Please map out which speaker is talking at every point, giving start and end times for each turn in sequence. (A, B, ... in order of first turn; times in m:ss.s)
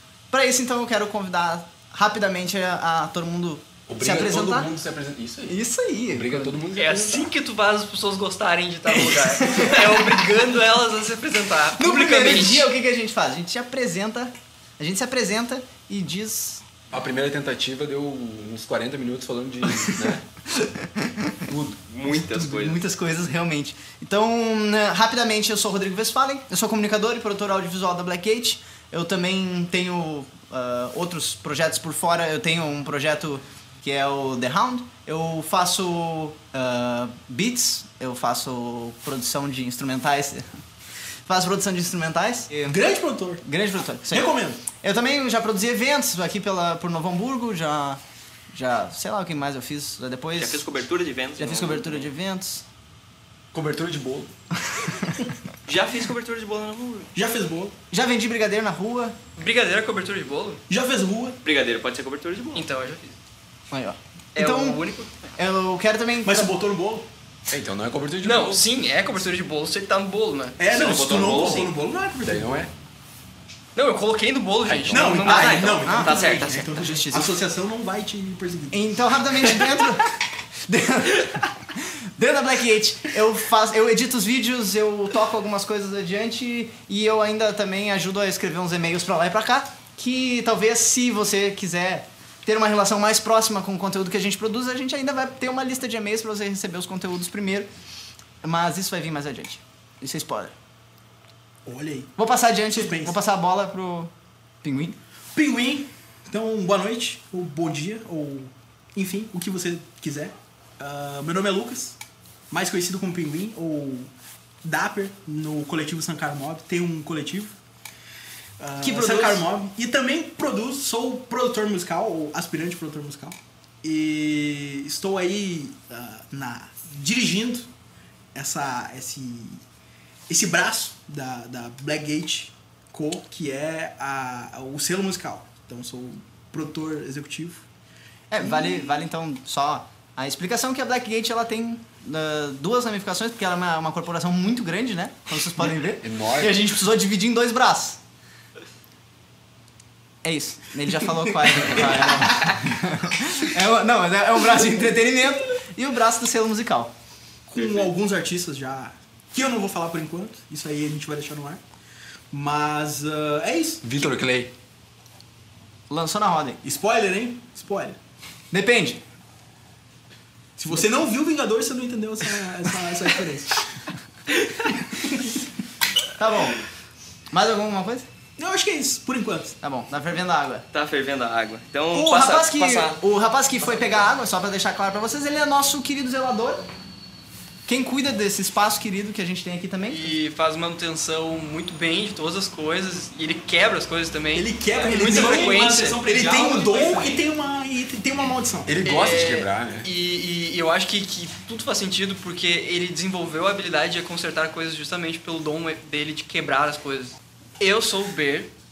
0:00.3-0:04.7 A
0:03.9-0:05.6 B
0:05.5-0:06.6 A
0:06.1-0:07.3 B
0:06.7-0:12.7 C
0:09.2-0:10.2 A
0:11.8-0:16.6 A
0:16.9-0:20.2 B
0:19.9-0:21.4 A
0:21.5-0:21.8 B
0:21.8-0:22.8 D
0:22.1-0:40.5 A
0:41.3-0:42.8 A
0:42.7-0:43.4 E
0:43.4-0:48.0 A
0:44.1-0:44.6 E
0:48.5-0:50.6 A
0:50.4-0:52.1 D
0:51.4-0:52.6 A
0:53.5-0:54.3 B
0:54.6-0:55.3 A
0:55.7-0:57.1 D
0:57.2-0:57.8 E
0:57.9-0:59.2 A
0:59.4-1:00.6 C
1:00.7-1:01.4 E
1:01.4-1:02.6 D
1:02.6-1:03.2 C
1:03.7-1:04.8 A
1:04.4-1:05.1 C
1:05.4-1:06.5 A
1:06.2-1:07.1 E
1:07.5-1:08.7 B
1:08.2-1:10.6 C
1:10.6-1:12.7 E
1:10.7-1:11.7 D
1:12.2-1:12.7 B
1:13.8-1:16.6 C
1:14.7-1:15.0 B
1:14.9-1:19.0 E
1:15.2-1:16.6 D
1:15.8-1:17.4 A
1:18.7-1:37.7 A
1:38.4-1:40.5 A
1:41.7-1:42.1 E
1:42.2-1:44.1 A
1:42.8-1:43.2 E
1:44.6-1:45.0 A
1:45.4-1:52.0 E
1:52.5-1:54.1 E
1:54.6-1:57.6 E
1:58.6-2:07.7 E
1:58.8-1:59.4 A
2:08.3-2:09.6 E
2:10.3-2:17.6 E
2:18.3-2:28.0 A
2:26.0-2:26.6 B
2:30.2-2:36.9 A
2:37.5-2:41.6 E
2:42.3-2:43.8 E
2:43.8-2:44.5 B
2:45.9-2:46.6 A
2:46.6-2:48.0 E
2:48.5-2:49.0 A
2:50.6-2:53.7 E
2:56.2-2:56.6 A
2:57.3-2:58.1 A
2:58.4-2:59.6 E
2:59.6-3:00.7 A
3:00.7-3:03.0 D
3:01.9-3:06.7 A
3:07.7-3:10.2 A
3:09.9-3:16.0 C
3:14.3-3:18.8 E
3:14.7-3:17.2 D
3:18.6-3:19.9 B
3:18.8-3:28.5 C